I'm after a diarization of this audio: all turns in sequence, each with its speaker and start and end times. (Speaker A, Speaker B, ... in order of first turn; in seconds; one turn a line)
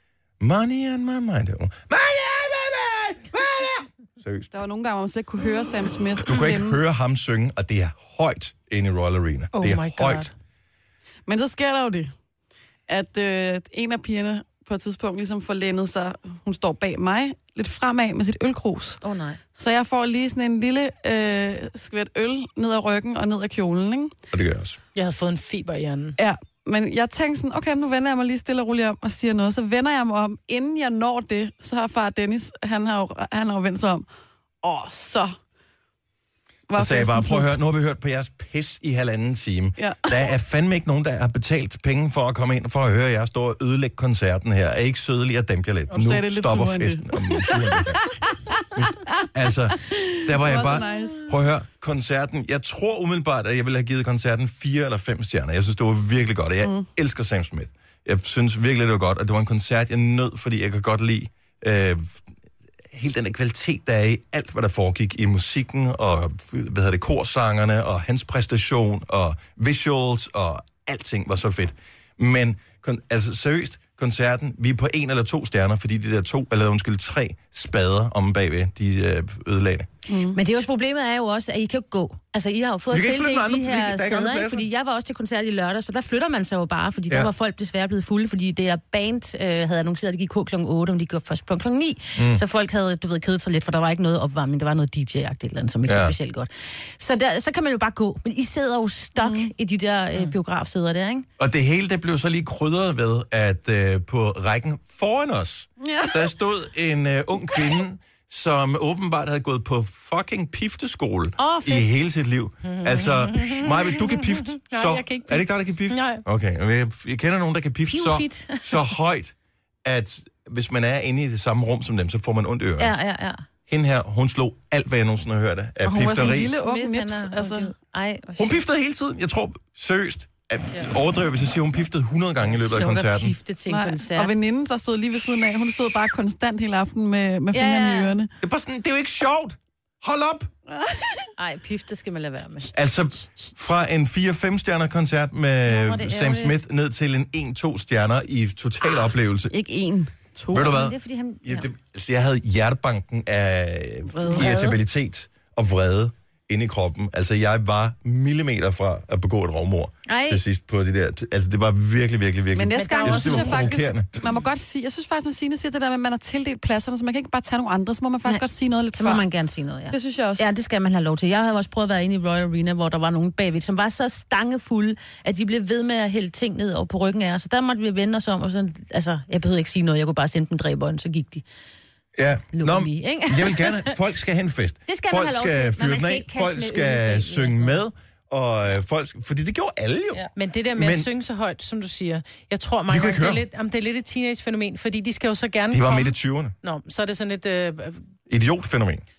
Speaker A: 0.4-4.5
Speaker B: 4.5-6.8
Speaker A: 6.2-10.3
Speaker C: 9.5-10.3
Speaker B: 11.3-12.1
Speaker B: 12.9-19.0
Speaker D: 19.0-19.4
Speaker B: 19.6-24.1
Speaker A: 24.3-24.8
Speaker C: 24.9-26.2
Speaker B: 26.2-34.1
Speaker B: 34.6-35.4
Speaker B: 36.7-37.5
Speaker A: 36.8-48.0
Speaker B: 39.8-40.1
Speaker B: 45.9-49.0
Speaker A: 48.8-62.2
Speaker B: 49.9-51.3
Speaker A: 62.9-79.9
Speaker B: 80.1-80.4
Speaker D: 80.3-101.3
Speaker A: 82.9-84.7
Speaker A: 92.2-92.4
Speaker A: 95.9-96.2
Speaker B: 99.2-99.5
Speaker A: 101.4-122.9
Speaker B: 105.8-106.3
Speaker D: 111.4-111.9
Speaker C: 112.7-116.2
Speaker D: 117.9-118.9
Speaker D: 122.8-123.4
Speaker A: 123.7-126.6
Speaker B: 125.8-127.7
Speaker D: 126.2-128.6
Speaker A: 128.4-133.4
Speaker D: 132.5-134.3
Speaker B: 133.7-138.3
Speaker D: 137.5-138.2
Speaker A: 138.4-140.5
Speaker B: 140.7-141.3
Speaker D: 141.4-142.7
Speaker A: 142.7-149.5
Speaker D: 145.7-146.6
Speaker B: 149.5-150.8
Speaker A: 150.5-164.1
Speaker D: 150.5-151.7
Speaker D: 160.1-160.4
Speaker B: 162.6-169.2
Speaker D: 162.8-163.7
Speaker D: 168.3-181.4
Speaker B: 169.9-170.4
Speaker A: 182.2-191.1
Speaker D: 182.5-184.0
Speaker D: 184.9-187.8
Speaker C: 190.4-198.1
Speaker A: 192.9-193.4
Speaker A: 195.7-196.5
Speaker A: 198.3-199.0